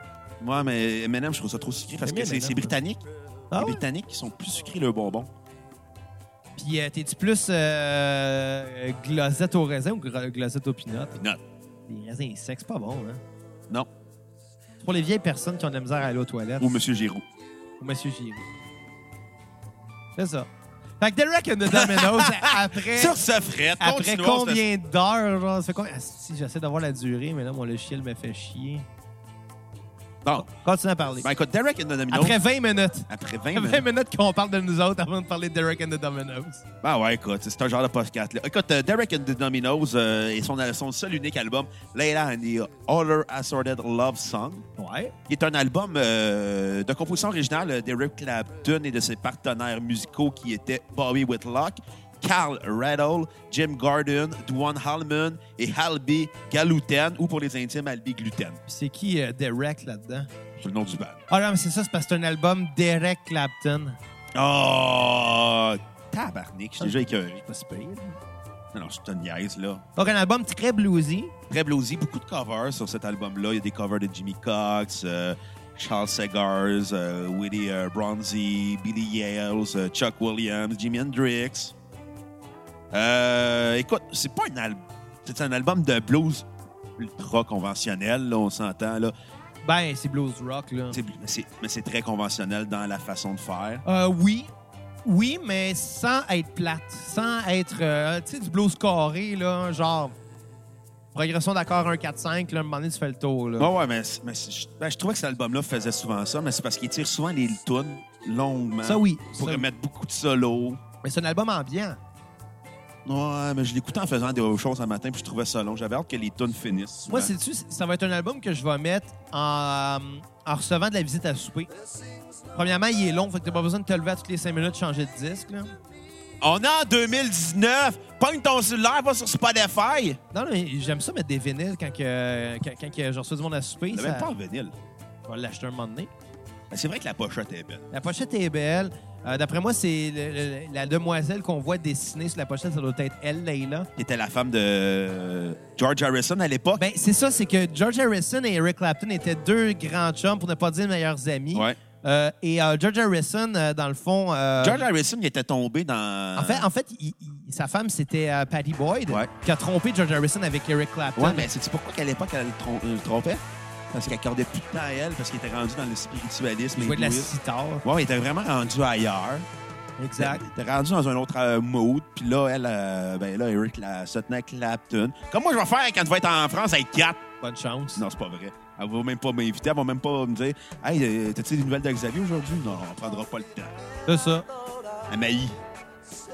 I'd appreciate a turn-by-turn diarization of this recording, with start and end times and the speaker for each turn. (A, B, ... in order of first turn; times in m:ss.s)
0:00.4-0:03.0 A
0:02.0-0:02.7 B
0:03.5-0:03.8 B
0:03.6-0:05.3 A
0:06.6-0:11.2 B
0:11.9-0:13.2 B
0:14.8-0:16.7 B
0:16.6-0:17.2 A
0:17.8-0:18.4 B
0:20.2-0:20.5 B
0:21.0-0:23.2 B
0:21.7-0:24.6 A
0:23.8-0:28.9 B
0:30.4-0:31.3 B
0:31.2-0:32.4 A
0:32.1-0:36.6 B
0:33.1-0:33.8 A
0:36.8-0:44.6 A
0:44.8-0:45.1 B
0:45.3-0:58.6 A
0:58.7-1:00.3 B
1:00.6-1:01.2 A
1:01.3-1:04.0 B
1:04.4-1:07.4 A
1:06.8-1:08.2 B
1:08.7-1:09.8 A
1:10.0-1:11.3 B
1:11.5-1:21.7 A
1:22.9-1:26.4 A
1:27.0-1:29.1 A
1:29.6-1:31.0 B
1:30.9-1:33.8 A
1:33.8-1:34.5 B
1:35.0-1:40.1 B
1:41.1-1:43.7 B
1:43.6-1:50.8 A
1:48.8-1:49.6 B
1:51.0-1:52.0 B
1:53.0-1:57.3 A
1:57.1-2:01.7 B
2:02.5-2:05.7 B
2:06.4-2:10.2 A
2:10.3-2:14.3 B
2:13.9-2:14.7 A
2:15.3-2:16.1 B
2:16.7-2:17.8 A
2:17.9-2:23.9 B
2:24.0-2:26.8 A
2:26.8-2:34.8 B
2:34.6-2:36.7 A
2:36.4-2:41.5 B
2:41.2-2:47.3 A
2:46.8-2:47.8 B
2:47.8-2:49.4 A
2:50.0-2:50.4 B
2:50.2-2:57.2 A
2:57.4-2:58.0 B
2:58.0-3:03.7 A
3:04.0-3:04.4 B
3:05.1-3:05.6 A